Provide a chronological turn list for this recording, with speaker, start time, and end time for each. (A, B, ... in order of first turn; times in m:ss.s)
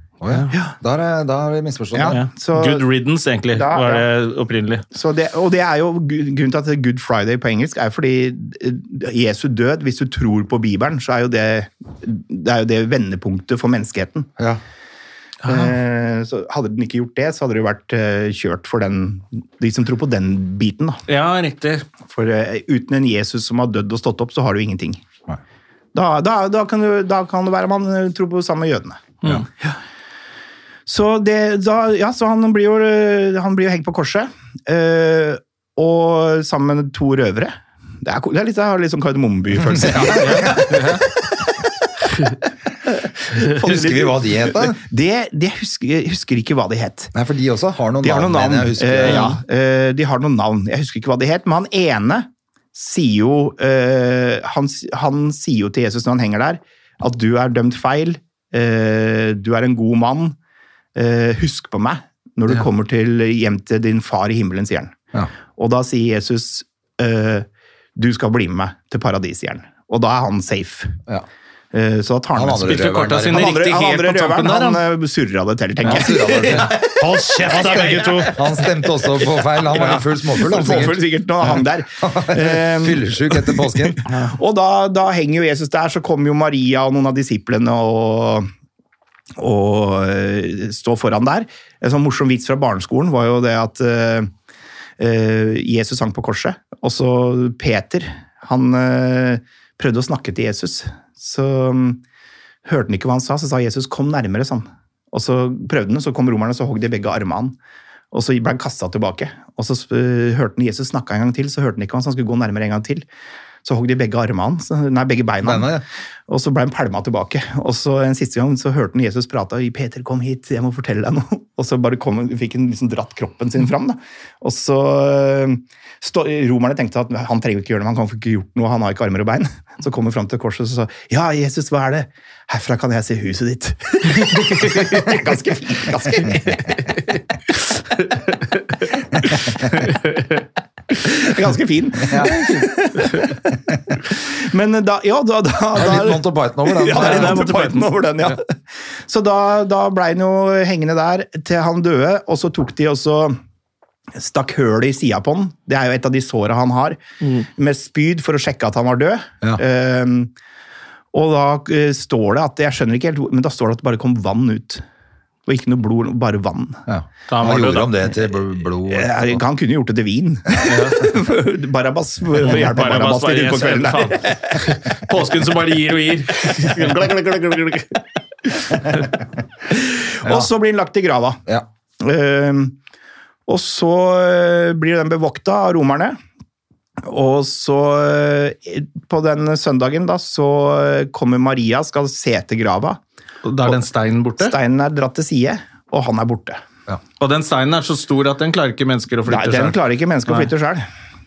0:00.2-0:02.2 A
0:01.9-0:02.8 B
0:02.1-0:04.8 C
0:03.5-0:04.0 B
0:04.9-0:14.3 B
0:15.4-0:21.0 B
0:21.1-0:21.8 C
0:22.1-0:25.0 B
0:25.9-0:29.0 B
0:30.9-0:41.4 B
0:39.6-0:40.8 A
0:40.1-0:41.0 C
0:43.0-0:47.1 B
0:43.4-0:44.8 A
0:47.1-0:49.4 A
0:48.0-1:00.3 B
1:00.9-1:05.0 B
1:05.6-1:07.4 B
1:08.0-1:11.0 B
1:11.7-1:28.5 B
1:12.3-1:13.5 A
1:12.6-1:14.8 C
1:15.8-1:16.8 A
1:15.8-1:18.4 C
1:18.2-1:24.0 A
1:29.4-1:34.3 B
1:35.0-1:42.0 B
1:42.6-1:47.6 B
1:48.1-1:53.0 B
1:53.6-2:16.8 B
1:55.4-1:55.8 A
2:14.3-2:15.1 C
2:18.0-2:18.7 C
2:19.6-2:20.4 C
2:21.0-2:23.4 B
2:22.0-2:22.7 A
2:24.0-2:28.5 B
2:25.7-2:27.6 A
2:26.9-2:27.9 C
2:29.1-2:33.4 B
2:34.2-2:40.3 B
2:37.2-2:37.4 C
2:41.1-2:44.8 B
2:45.4-2:46.8 B
2:46.9-2:49.4 A
2:47.3-2:47.9 C
2:48.9-2:54.6 B
2:50.6-2:51.1 C
2:52.4-2:58.0 C
2:59.7-3:01.4 B
3:02.0-3:02.7 B
3:03.5-3:06.2 B
3:07.0-3:13.0 B
3:13.4-3:14.6 C
3:14.4-3:16.6 B
3:17.2-3:20.5 C
3:19.2-3:20.9 B